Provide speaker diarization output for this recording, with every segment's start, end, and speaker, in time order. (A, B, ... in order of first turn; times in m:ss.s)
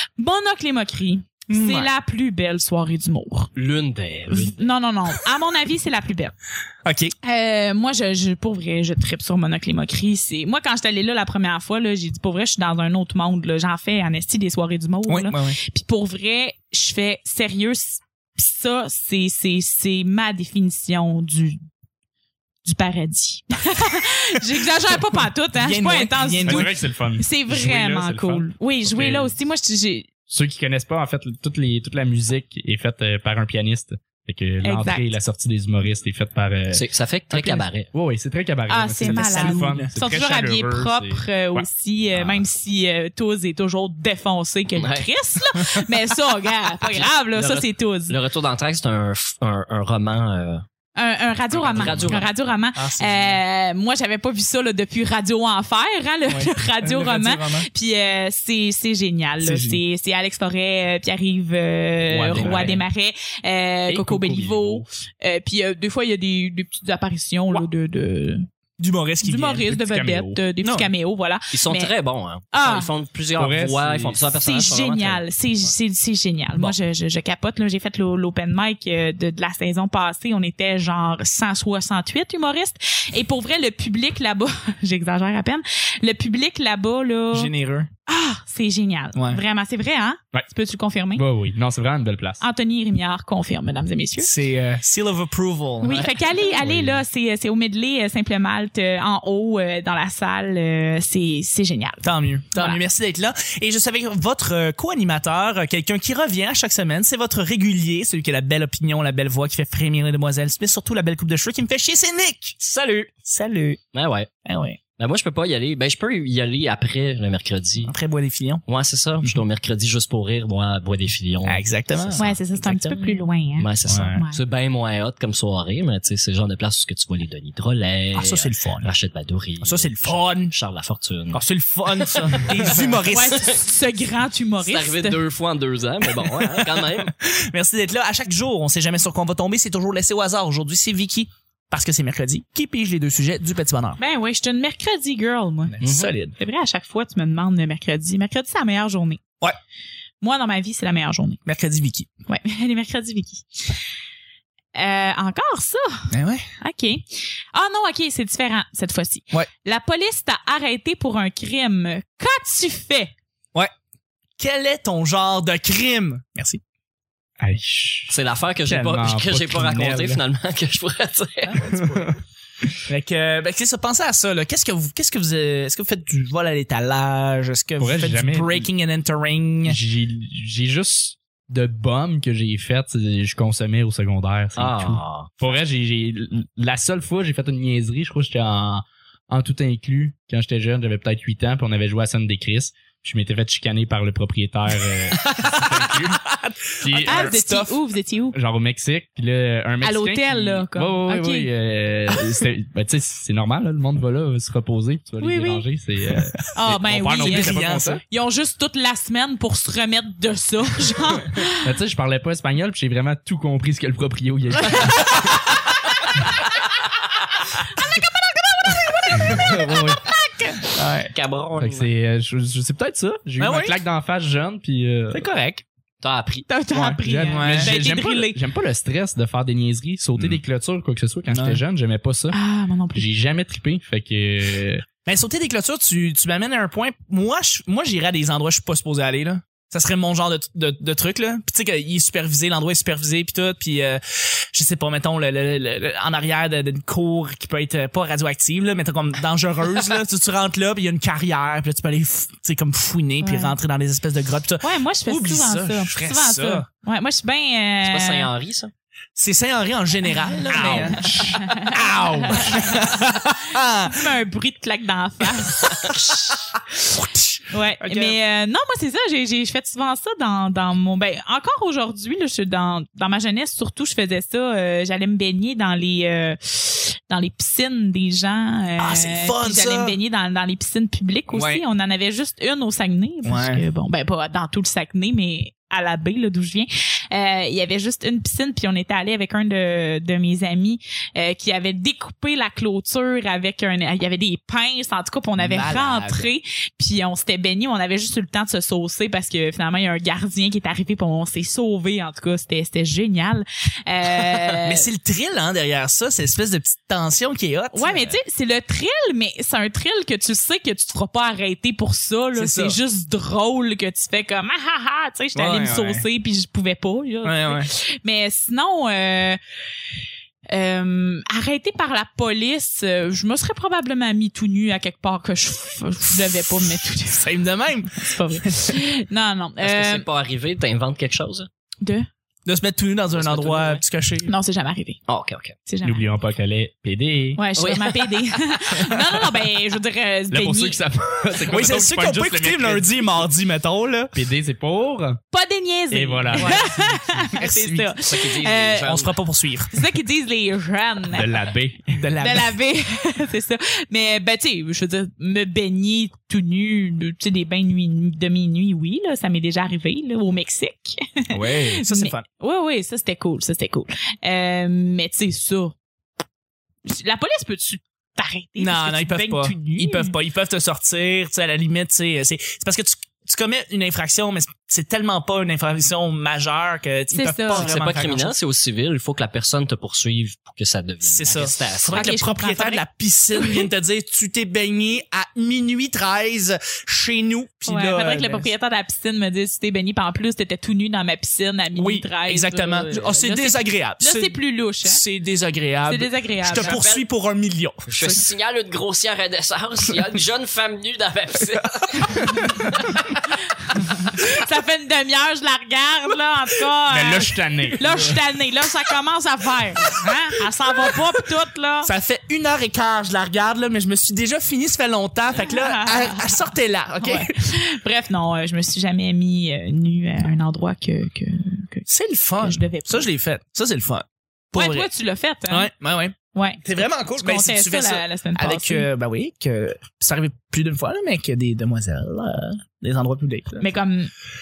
0:00.2-0:03.5 A
0:01.5-0:01.9 B
0:03.6-0:04.6 C
0:04.3-0:06.3 A
0:06.8-0:07.1 B
0:07.2-0:21.6 A
0:15.1-0:15.6 B
0:22.6-0:30.1 A
0:25.6-0:26.8 B
0:26.5-0:29.3 D
0:30.3-0:42.4 D
0:34.6-0:35.1 A
0:36.7-0:37.9 C
0:38.7-0:48.2 A
0:39.0-0:40.0 B
0:44.8-0:45.1 C
0:46.8-0:50.6 C
0:51.0-1:08.5 A
0:51.5-0:52.3 C
0:51.7-0:52.2 D
0:52.7-0:53.4 B
0:56.3-0:57.7 B
0:59.4-0:59.8 B
1:02.1-1:02.8 D
1:02.2-1:02.8 C
1:03.9-1:04.8 C
1:08.8-1:09.6 B
1:09.2-1:11.9 A
1:09.7-1:10.4 D
1:10.6-1:10.9 B
1:11.5-1:15.2 C
1:12.5-1:12.9 A
1:13.4-1:14.3 D
1:14.4-1:27.5 A
1:27.3-1:27.9 B
1:28.1-1:31.2 A
1:29.2-1:29.4 B
1:31.2-1:32.4 D
1:32.4-1:34.3 A
1:34.2-1:36.2 B
1:35.8-1:42.8 A
1:36.6-1:37.0 D
1:42.0-1:52.6 B
1:52.6-1:53.1 C
1:53.2-1:53.8 B
1:53.9-1:54.3 C
1:54.4-1:54.8 B
1:55.0-1:57.9 C
1:57.8-1:58.6 B
1:58.7-2:11.4 C
2:01.4-2:02.3 B
2:02.2-2:04.4 A
2:03.9-2:04.2 B
2:08.1-2:08.9 B
2:09.6-2:10.5 B
2:11.3-2:13.5 B
2:12.4-2:13.5 C
2:13.1-2:15.2 A
2:14.6-2:17.1 C
2:16.3-2:24.0 B
2:24.0-2:25.8 A
2:25.7-2:26.4 B
2:25.8-2:26.1 C
2:26.4-2:29.2 A
2:30.2-2:31.4 A
2:31.5-2:32.1 B
2:32.3-2:33.8 A
2:34.8-2:43.1 A
2:36.1-2:36.5 B
2:44.4-2:46.6 B
2:47.4-2:48.1 D
2:48.1-2:51.7 C
2:48.7-2:50.2 D
2:51.4-2:52.2 B
2:51.7-2:52.1 D
2:52.9-2:59.8 B
2:57.8-2:58.7 D
2:59.6-3:17.4 D
3:04.6-3:05.3 C
3:15.3-3:17.7 B
3:17.0-3:18.4 A
3:18.3-3:28.0 D
3:19.8-3:21.5 A
3:25.2-3:25.6 A
3:26.5-3:31.7 A
3:27.2-3:28.0 B
3:31.6-3:35.3 D
3:37.7-3:40.7 A
3:39.2-3:40.1 D
3:40.7-3:41.1 B
3:41.1-3:41.9 C
3:41.6-3:45.3 D
3:43.4-3:43.8 B
3:45.1-3:45.6 B
3:46.0-3:46.5 C
3:46.5-3:48.4 A
3:46.8-3:52.4 D
3:46.9-3:47.9 B
3:51.3-3:51.6 B
3:52.3-3:53.1 A
3:52.9-3:54.8 D
3:55.0-4:16.7 B
4:13.2-4:13.6 A
4:14.6-4:18.3 A
4:17.8-4:18.7 C
4:19.2-4:24.1 B
4:20.3-4:23.2 A
4:20.6-4:22.6 D
4:23.8-4:26.5 A
4:25.6-4:26.3 B
4:26.9-4:28.2 B
4:27.5-5:04.9 A
4:38.8-4:40.0 B
4:41.3-4:41.6 B
4:43.2-4:43.6 B
4:55.4-4:56.3 B
5:04.6-5:08.2 B
5:07.7-5:19.4 A
5:12.4-5:12.8 B
5:15.4-5:16.0 B
5:17.2-5:17.7 B
5:20.5-5:27.4 A
5:27.1-5:28.7 B
5:28.0-5:30.0 A
5:29.6-5:31.5 C
5:31.8-5:32.1 A
5:32.5-5:34.3 B
5:33.2-5:33.8 C
5:34.3-5:35.0 A
5:35.1-5:35.6 C
5:35.7-5:36.0 A
5:35.8-5:37.4 D
5:37.4-5:40.8 A
5:37.6-5:38.3 C
5:40.3-5:42.9 D
5:41.5-5:44.2 B
5:44.1-5:45.2 D
5:45.3-5:48.9 A
5:45.9-5:47.3 D
5:46.4-5:46.7 B
5:47.4-5:47.9 B
5:48.0-5:49.1 C
5:48.8-5:49.8 B
5:49.7-5:51.4 A
5:51.1-5:52.0 D
5:51.9-5:52.5 B
5:52.2-6:05.8 A
6:01.3-6:02.2 B
6:06.8-6:10.2 A
6:08.6-6:18.3 B
6:17.1-6:17.7 A
6:17.6-6:22.2 C
6:21.0-6:28.5 B
6:21.9-6:22.8 A
6:23.4-6:23.7 A
6:27.7-6:35.0 A
6:31.8-6:38.2 B
6:35.8-6:36.8 A
6:36.5-6:37.0 C
6:37.9-6:43.3 C
6:42.1-6:42.7 B
6:44.0-6:51.9 A
6:46.9-6:47.9 D
6:51.8-6:57.3 B
6:55.4-7:01.9 A
7:01.9-7:04.9 B
7:02.4-7:03.1 A
7:04.6-7:05.7 A
7:05.5-7:13.7 B
7:06.3-7:08.9 A
7:13.6-7:14.1 A